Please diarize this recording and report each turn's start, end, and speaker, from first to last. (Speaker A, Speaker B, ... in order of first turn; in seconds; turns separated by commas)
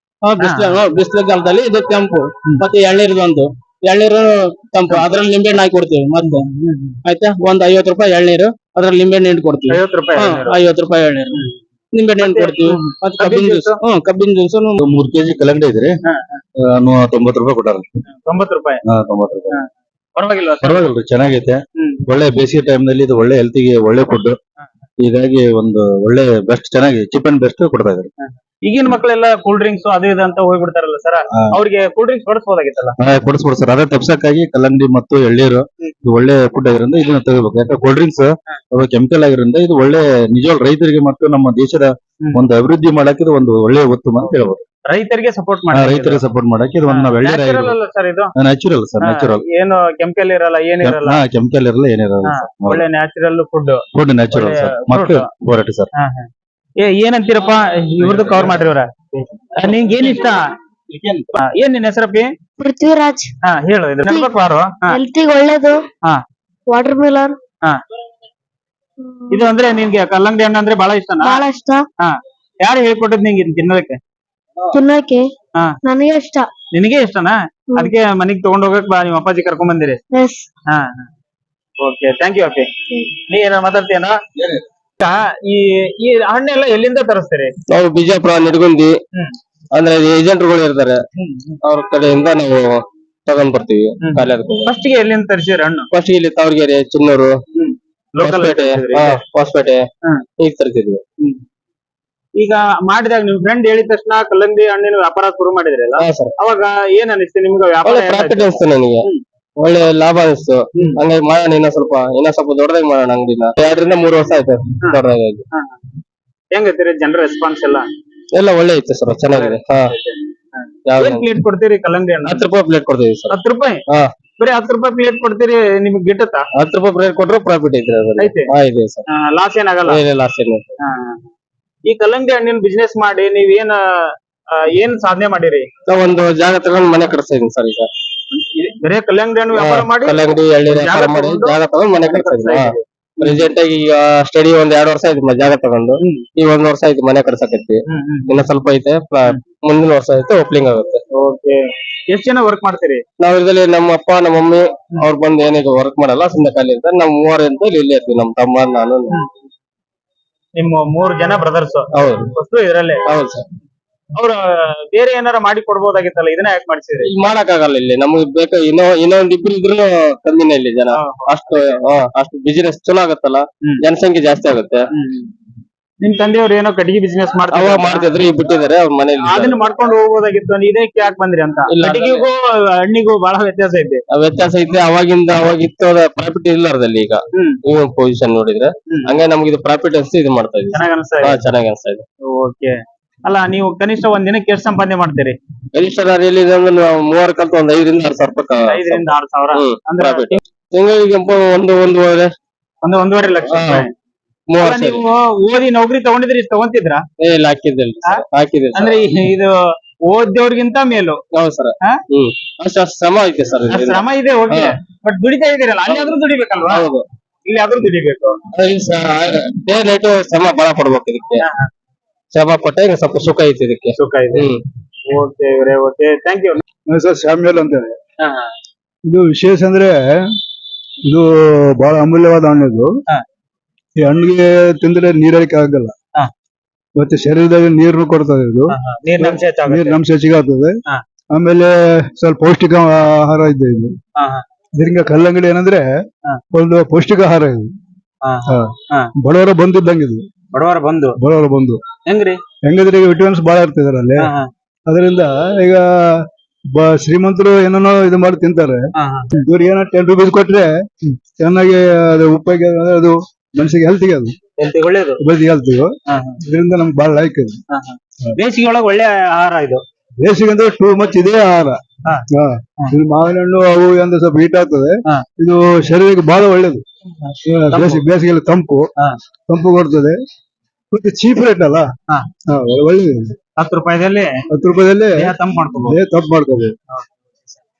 Speaker A: 0.2-6.5, Speaker B: 0.4-0.8, Speaker B: 6.2-7.0, Speaker A: 7.0-11.4, Speaker B: 9.7-10.6, Speaker A: 11.9-14.8, Speaker B: 12.2-13.8, Speaker C: 14.8-16.0, Speaker B: 16.1-16.4, Speaker C: 16.6-17.9, Speaker B: 18.3-18.8, Speaker C: 18.9-19.6, Speaker B: 19.5-20.8, Speaker C: 20.6-24.4, Speaker C: 25.0-28.1, Speaker B: 28.2-33.0, Speaker C: 33.0-44.6, Speaker B: 44.9-46.2, Speaker C: 45.7-47.8, Speaker B: 46.9-48.3, Speaker C: 48.4-49.4, Speaker B: 49.0-51.2, Speaker C: 50.8-52.8, Speaker B: 52.3-55.3, Speaker C: 53.9-55.9, Speaker B: 56.0-58.9, Speaker B: 59.6-60.5, Speaker B: 61.4-62.3, Speaker D: 62.6-63.3, Speaker B: 63.5-65.0, Speaker D: 64.0-64.3, Speaker D: 64.9-65.9, Speaker D: 66.7-67.4, Speaker D: 69.0-69.5, Speaker B: 69.3-71.5, Speaker D: 71.2-71.9, Speaker B: 72.0-74.0, Speaker D: 74.7-75.3, Speaker D: 75.8-76.5, Speaker B: 76.7-80.0, Speaker D: 77.7-77.9, Speaker D: 80.1-80.5, Speaker B: 80.7-81.1, Speaker B: 81.8-84.2, Speaker D: 82.9-83.2, Speaker B: 85.0-87.5, Speaker E: 87.7-88.9, Speaker E: 89.7-91.0, Speaker B: 91.2-91.5, Speaker E: 91.6-94.7, Speaker B: 94.0-95.9, Speaker E: 95.9-97.3, Speaker B: 97.6-99.2, Speaker E: 98.2-99.8, Speaker E: 100.4-101.0, Speaker B: 102.4-109.2, Speaker E: 106.0-106.3, Speaker E: 107.8-109.1, Speaker E: 109.6-115.4, Speaker B: 116.5-117.9, Speaker E: 118.3-119.9, Speaker B: 119.3-122.5, Speaker E: 120.9-121.3, Speaker E: 122.2-123.4, Speaker B: 123.3-123.8, Speaker B: 124.4-126.5, Speaker E: 126.6-129.1, Speaker B: 128.2-128.5, Speaker B: 129.1-130.0, Speaker E: 129.8-130.7, Speaker B: 130.8-131.2, Speaker B: 131.9-135.7, Speaker E: 135.9-137.9, Speaker B: 138.3-143.5, Speaker E: 139.5-151.0, Speaker B: 147.9-148.5, Speaker B: 151.2-153.0, Speaker E: 153.2-159.1, Speaker B: 160.6-163.0, Speaker E: 161.9-162.3, Speaker E: 163.1-163.4, Speaker B: 164.2-167.1, Speaker E: 167.0-174.9, Speaker B: 170.9-171.3, Speaker B: 175.0-175.3, Speaker B: 176.0-178.1, Speaker E: 177.5-179.6, Speaker B: 179.2-184.0, Speaker E: 181.7-182.2, Speaker E: 184.1-192.0, Speaker B: 190.7-191.4, Speaker B: 192.2-192.7, Speaker B: 193.2-195.4, Speaker E: 195.7-202.3, Speaker B: 198.7-200.4, Speaker B: 202.8-203.9, Speaker E: 203.5-203.9, Speaker E: 204.5-205.0, Speaker B: 204.6-207.0, Speaker E: 207.2-209.0, Speaker B: 208.8-209.6, Speaker B: 210.1-211.2, Speaker E: 211.3-214.7, Speaker B: 213.7-216.9, Speaker E: 215.9-216.1, Speaker E: 216.7-217.1, Speaker B: 217.5-218.4, Speaker E: 218.5-221.4, Speaker B: 221.4-221.7, Speaker E: 222.3-224.6, Speaker B: 224.0-224.5, Speaker B: 225.1-226.6, Speaker F: 226.9-228.0, Speaker B: 228.2-228.5, Speaker F: 229.1-230.2, Speaker F: 231.1-232.9, Speaker F: 234.0-235.9, Speaker F: 237.0-240.7, Speaker B: 238.7-240.0, Speaker F: 241.3-243.9, Speaker B: 244.2-244.4, Speaker F: 244.8-245.9, Speaker F: 246.5-247.7, Speaker B: 248.2-249.1, Speaker F: 248.5-250.2, Speaker B: 250.5-251.2, Speaker F: 251.2-251.8, Speaker B: 252.1-252.4, Speaker F: 252.6-254.3, Speaker B: 254.2-254.5, Speaker F: 254.9-258.9, Speaker B: 259.0-259.5, Speaker F: 259.4-264.4, Speaker B: 264.6-265.2, Speaker F: 265.2-267.6, Speaker B: 266.1-266.4, Speaker B: 267.7-269.8, Speaker F: 270.2-271.8, Speaker F: 272.3-276.8, Speaker B: 277.2-278.0, Speaker F: 277.5-278.9, Speaker F: 279.5-280.2, Speaker F: 280.9-281.9, Speaker F: 282.5-283.4, Speaker B: 283.6-284.3, Speaker F: 284.5-286.8, Speaker B: 285.2-286.0